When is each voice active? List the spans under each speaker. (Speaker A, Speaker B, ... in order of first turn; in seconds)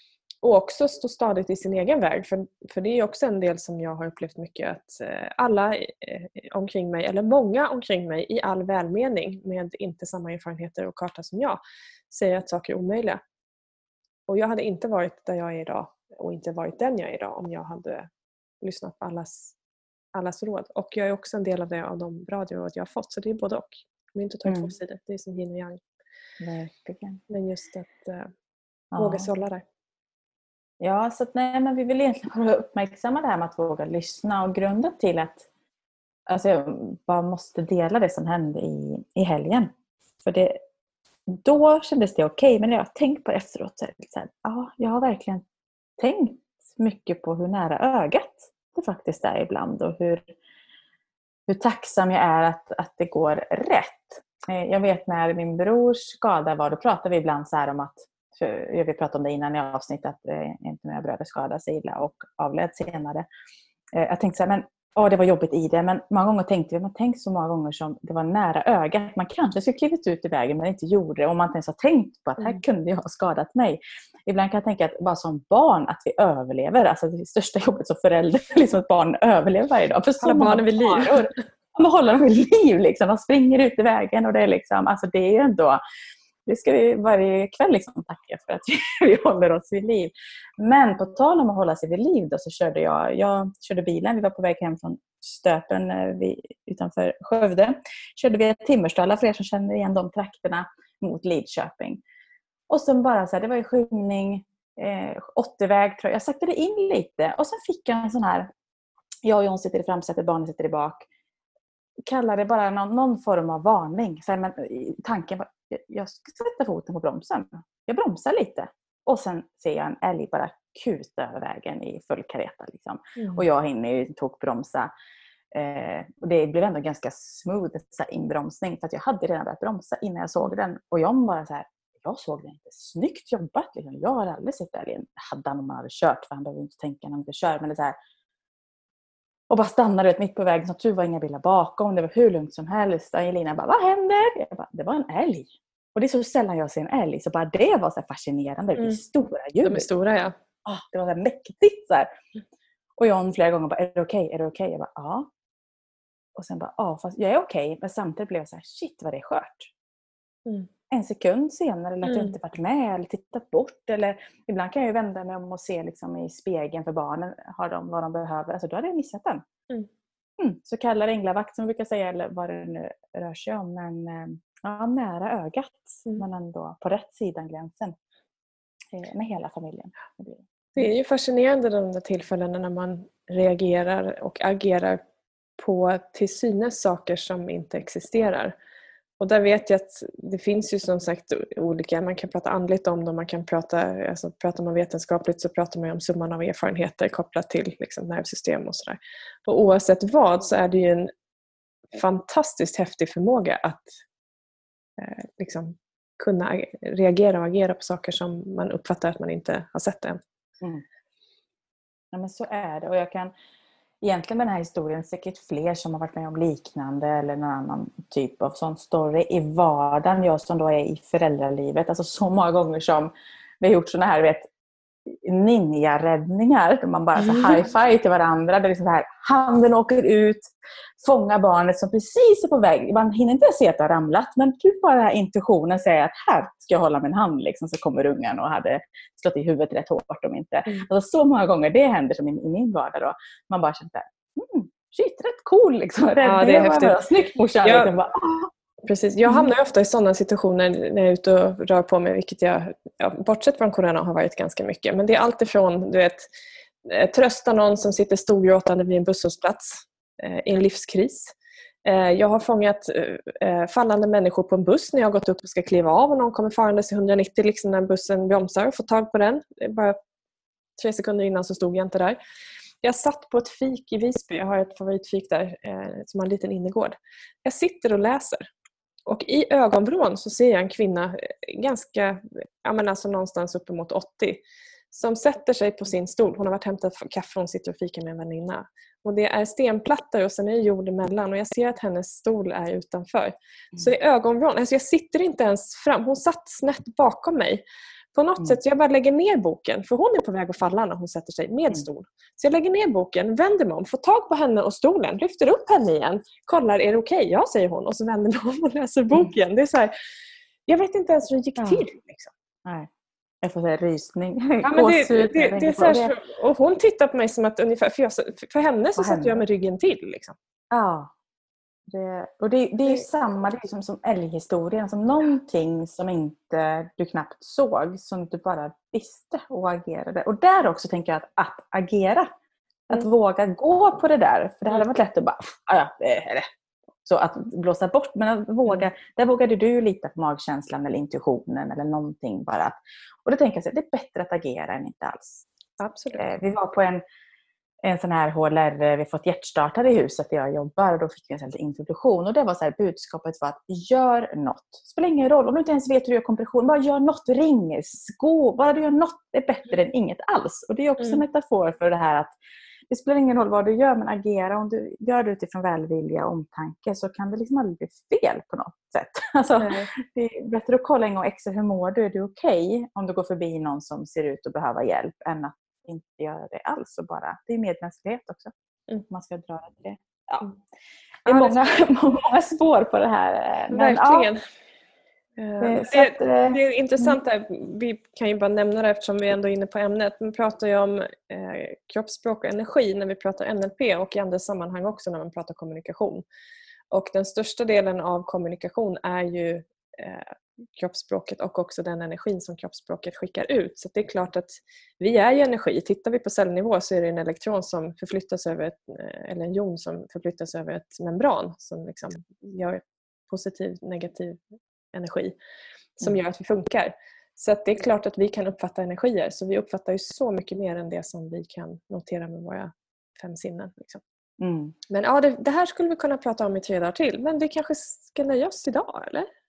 Speaker A: 0.4-13.2, 14.3-18.1, 18.6-19.6, 20.1-25.8, 27.3-28.3, 29.0-29.6, 80.2-81.3, 123.2-123.5, 149.6-150.3, 162.0-162.4, 180.8-185.0, 185.6-188.6, 189.2-201.1, 201.9-204.0, 205.0-210.2, 227.2-227.7, 246.2-247.0, 247.6-247.9, 248.8-256.3, 256.8-270.0, 270.8-272.2, 272.8-278.5, 279.1-309.9, 310.7-312.3, 314.6-320.4, 345.8-346.3, 361.0-361.2, 369.6-369.9, 381.3-381.6, 383.7-384.4, 385.4-396.2, 396.9-414.4, 414.9-415.4, 416.0-424.0, 424.9-429.3
Speaker B: 24.4-24.7, 26.4-27.2, 28.9-29.3, 30.8-35.5, 36.3-39.7, 40.2-40.6, 41.3-45.4, 46.0-50.3, 51.5-63.3, 63.9-85.8, 86.5-102.0, 102.7-108.5, 109.2-111.1, 112.1-124.9, 125.5-138.0, 139.5-149.9, 150.7-152.1, 153.0-155.3, 156.3-159.7, 160.9-169.4, 170.4-177.9, 178.9-180.9, 212.1-213.3, 214.0-224.5, 225.1-248.5, 249.3-249.5, 311.6-311.9, 313.4-316.1, 319.0-319.4, 320.7-321.1, 321.9-332.3, 332.9-336.4, 337.1-345.5, 346.2-347.0, 347.8-362.4, 362.9-378.5, 379.1-380.5, 381.2-384.3, 385.6-387.2, 424.4-424.8